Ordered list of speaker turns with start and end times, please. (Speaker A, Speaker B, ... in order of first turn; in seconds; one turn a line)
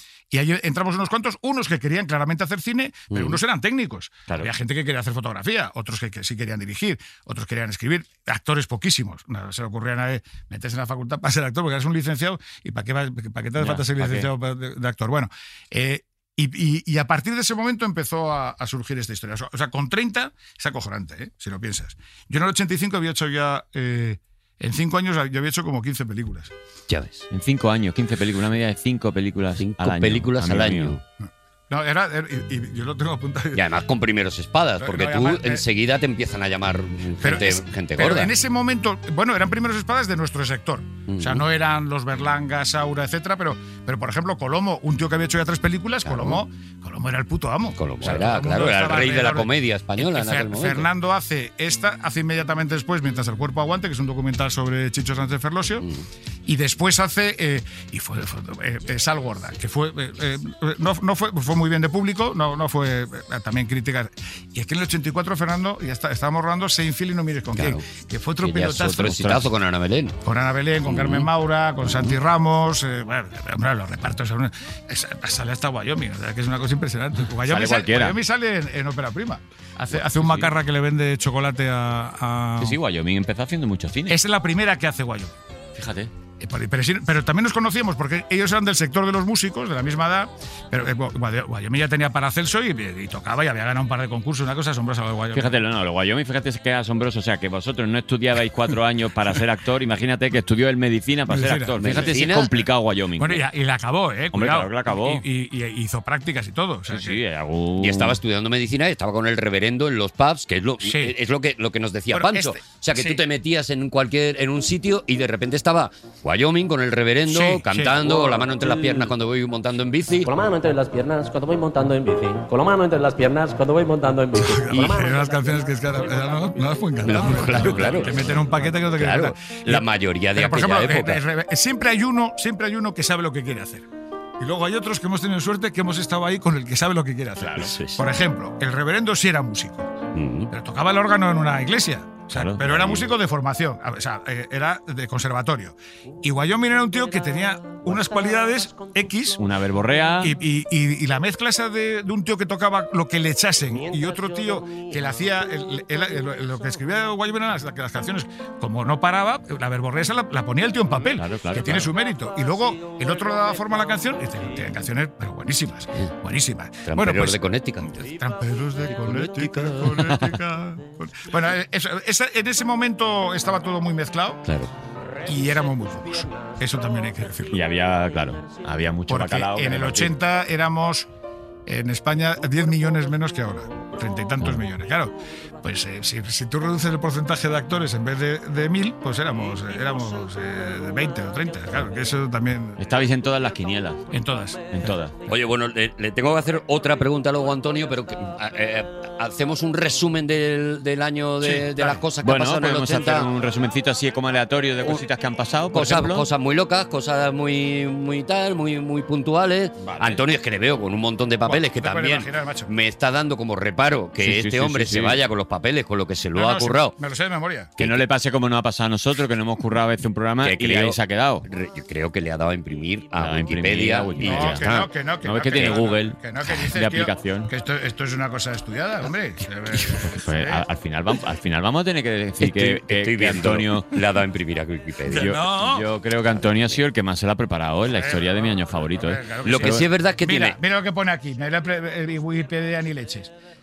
Speaker A: 0.3-26.5
Speaker B: 3.1-3.4
Speaker C: 13.6-14.3
Speaker B: 26.9-27.3
Speaker C: 27.3-31.0
Speaker B: 29.6-31.0
Speaker A: 31.2-33.6
Speaker B: 33.5-38.3
Speaker A: 34.8-35.6
Speaker A: 37.2-55.9
Speaker B: 41.1-41.4
Speaker B: 46.0-46.4
Speaker B: 47.8-50.9
Speaker B: 55.8-56.1
Speaker A: 56.5-69.2
Speaker B: 67.6-67.8
Speaker B: 68.4-70.2
Speaker C: 69.1-69.5
Speaker A: 70.2-82.8
Speaker B: 70.9-71.3
Speaker B: 71.8-72.1
Speaker C: 77.3-78.2
Speaker C: 80.0-80.5
Speaker C: 82.6-84.2
Speaker A: 84.1-85.3
Speaker C: 85.8-86.1
Speaker A: 86.4-95.6
Speaker C: 95.3-103.4
Speaker A: 101.3-102.1
Speaker B: 101.8-102.5
Speaker A: 103.2-107.2
Speaker C: 104.3-105.2
Speaker C: 106.9-108.2
Speaker B: 107.8-120.3
Speaker A: 110.8-111.2
Speaker A: 112.1-113.2
Speaker A: 117.3-118.5
Speaker D: 118.6-119.1
Speaker D: 120.3-125.4
Speaker A: 124.4-133.9
Speaker B: 127.0-131.2
Speaker C: 127.4-128.4
Speaker A: 134.4-139.9
Speaker B: 137.4-138.0
Speaker B: 140.1-140.5
Speaker A: 140.5-149.5
Speaker C: 142.3-143.1
Speaker C: 149.4-150.3
Speaker A: 150.2-174.4
Speaker C: 161.2-161.9
Speaker B: 166.8-167.9
Speaker C: 169.6-170.3
Speaker B: 174.4-174.7
Speaker A: 175.2-177.6
Speaker C: 177.5-180.2
Speaker A: 179.1-181.1
Speaker A: 181.7-192.8
Speaker C: 192.8-194.0
Speaker A: 194.1-195.0
Speaker C: 194.7-195.2
Speaker B: 195.3-203.3
Speaker A: 201.4-202.0
Speaker C: 202.2-206.3
Speaker B: 205.7-217.0
Speaker C: 209.8-210.2
Speaker A: 211.4-212.7
Speaker C: 214.2-215.2
Speaker A: 216.3-217.7
Speaker C: 217.8-221.4
Speaker B: 220.4-224.9
Speaker C: 223.2-224.7
Speaker A: 224.2-230.6
Speaker C: 225.2-227.5
Speaker C: 229.9-233.9
Speaker B: 232.4-235.4
Speaker A: 235.1-235.9
Speaker C: 235.1-239.8
Speaker A: 237.9-243.3
Speaker B: 239.4-240.6